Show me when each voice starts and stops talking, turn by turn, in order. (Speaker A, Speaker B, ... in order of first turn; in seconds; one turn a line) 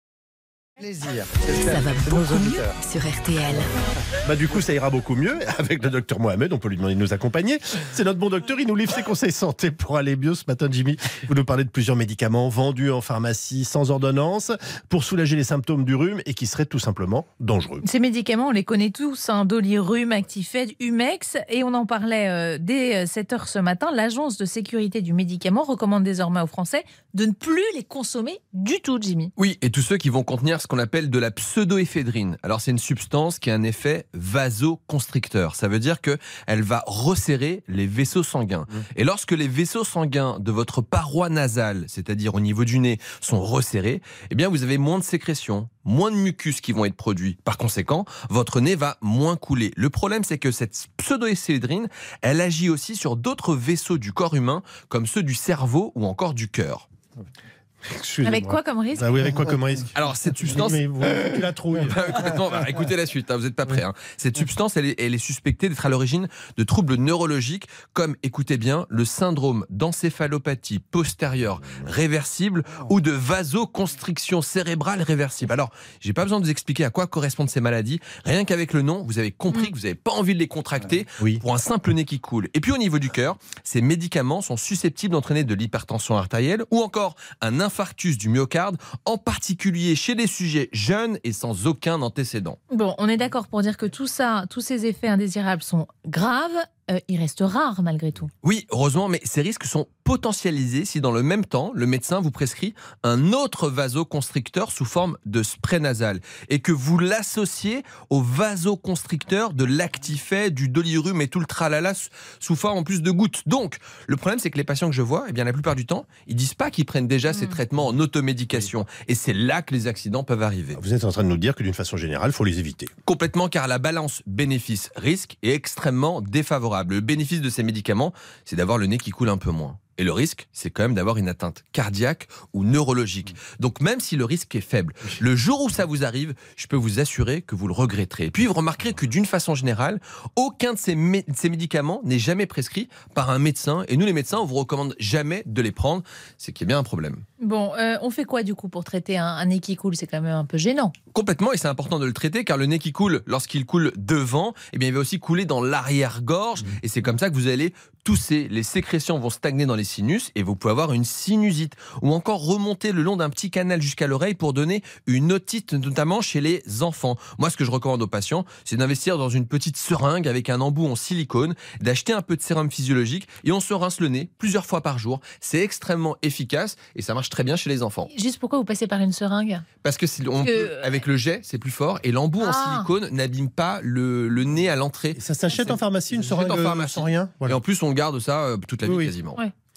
Speaker A: 0.8-2.7
Speaker B: 1.6-3.7
Speaker C: 4.2-17.9
Speaker D: 17.8-29.3
Speaker E: 29.4-56.9
Speaker C: 57.8-62.6
Speaker D: 58.2-59.5
Speaker E: 59.9-92.6
Speaker D: 92.7-98.3
Speaker E: 98.4-120.8
Speaker C: 120.7-122.9
Speaker E: 123.0-147.2
Speaker D: 147.4-150.9
Speaker E: 151.1-178.1
Speaker D: 178.1-179.6
Speaker E: 179.8-189.4
Speaker D: 180.4-181.0
Speaker D: 182.4-182.9
Speaker C: 185.1-187.6
Speaker C: 188.8-189.2